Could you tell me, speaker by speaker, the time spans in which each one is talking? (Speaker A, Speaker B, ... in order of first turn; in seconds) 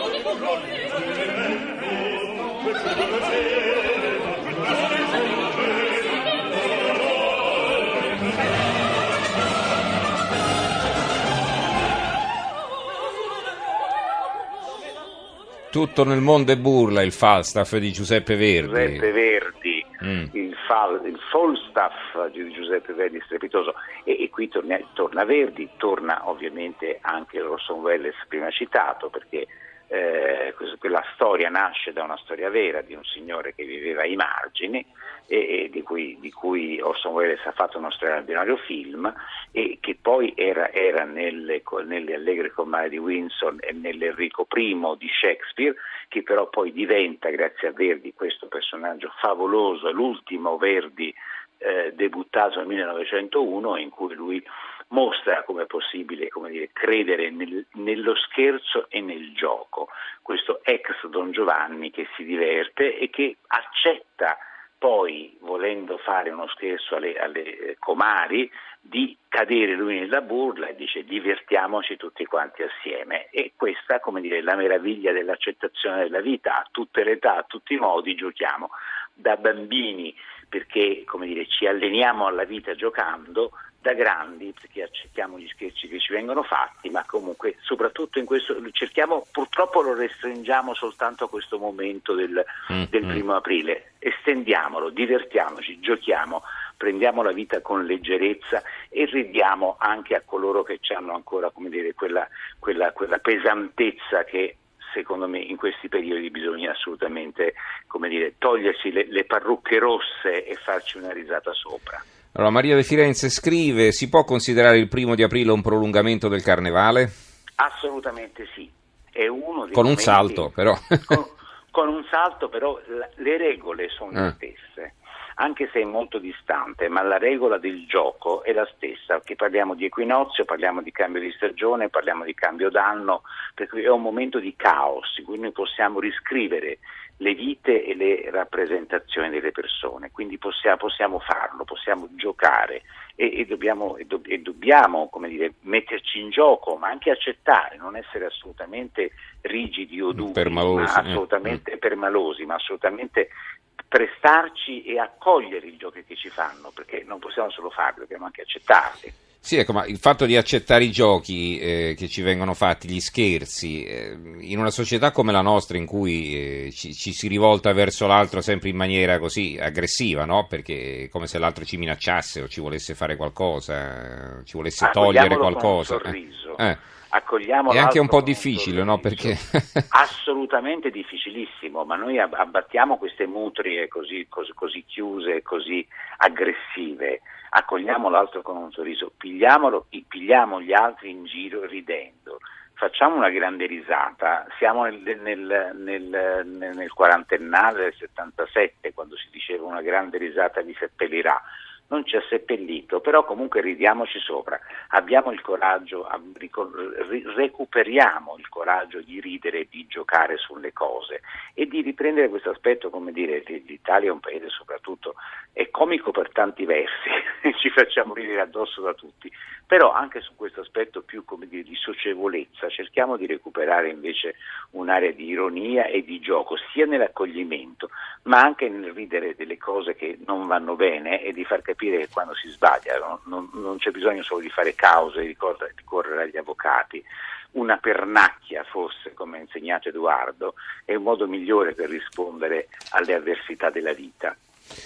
Speaker A: 15.7-19.0, 20.0-20.3, 112.3-117.1, 119.7-121.2, 150.1-151.2, 159.4-176.8, 177.7-179.9
Speaker B: 18.6-112.0, 117.6-120.5, 121.0-153.3, 153.9-159.1, 174.8-179.4, 179.9-244.4